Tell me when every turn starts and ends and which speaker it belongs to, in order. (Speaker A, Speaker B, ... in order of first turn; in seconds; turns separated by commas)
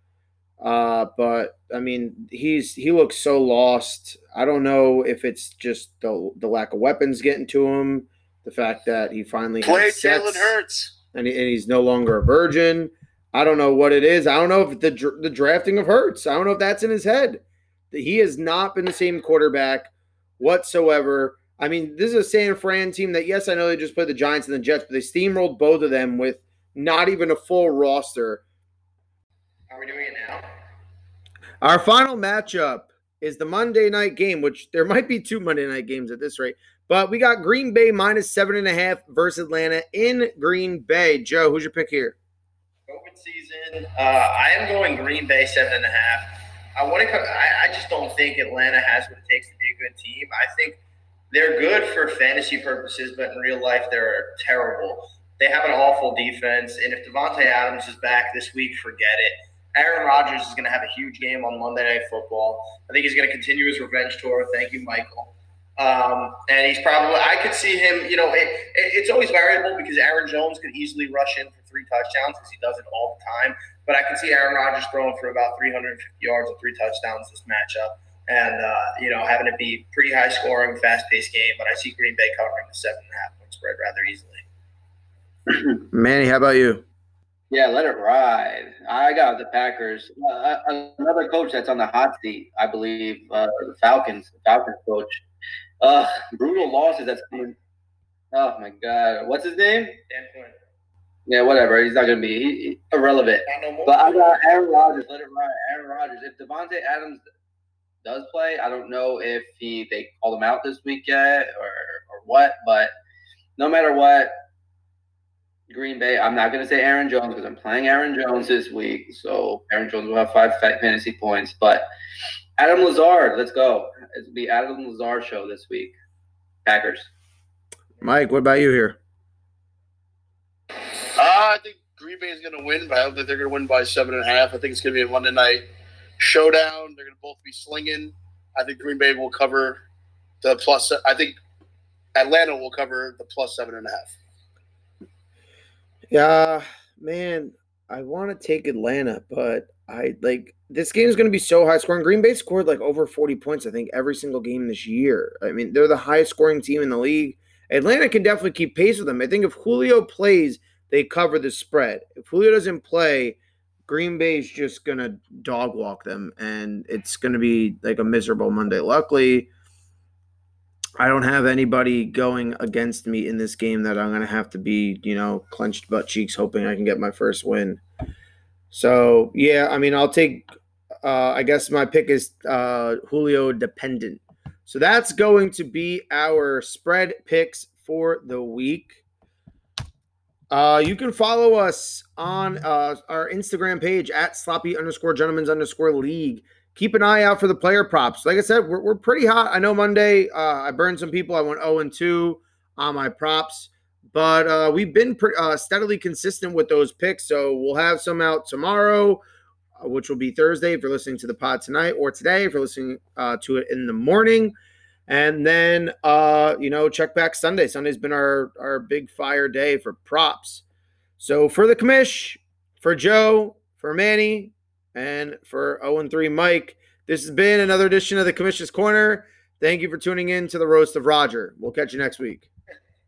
Speaker A: 0.6-10.5, Speaker B: 9.6-10.9, Speaker A: 11.1-28.4, Speaker C: 29.7-30.4, Speaker A: 31.6-42.1, Speaker C: 42.9-50.8, Speaker C: 51.3-84.4, Speaker A: 85.9-86.8, Speaker D: 87.5-95.2, Speaker D: 95.8-97.5, Speaker D: 98.3-100.0, Speaker C: 100.1-100.5, Speaker D: 101.3-107.2, Speaker C: 103.5-104.7, Speaker D: 108.0-112.9, Speaker D: 113.6-114.3, Speaker D: 115.7-121.9, Speaker D: 122.6-125.9, Speaker D: 126.7-127.1, Speaker A: 128.0-129.0, Speaker B: 131.2-135.6, Speaker B: 136.2-139.8, Speaker B: 140.4-141.3, Speaker B: 142.2-144.2, Speaker A: 146.1-169.5, Speaker A: 171.0-177.8, Speaker A: 178.7-180.5, Speaker A: 181.0-189.0, Speaker A: 190.5-209.2, Speaker A: 209.8-214.5, Speaker A: 215.1-220.6, Speaker A: 221.2-232.5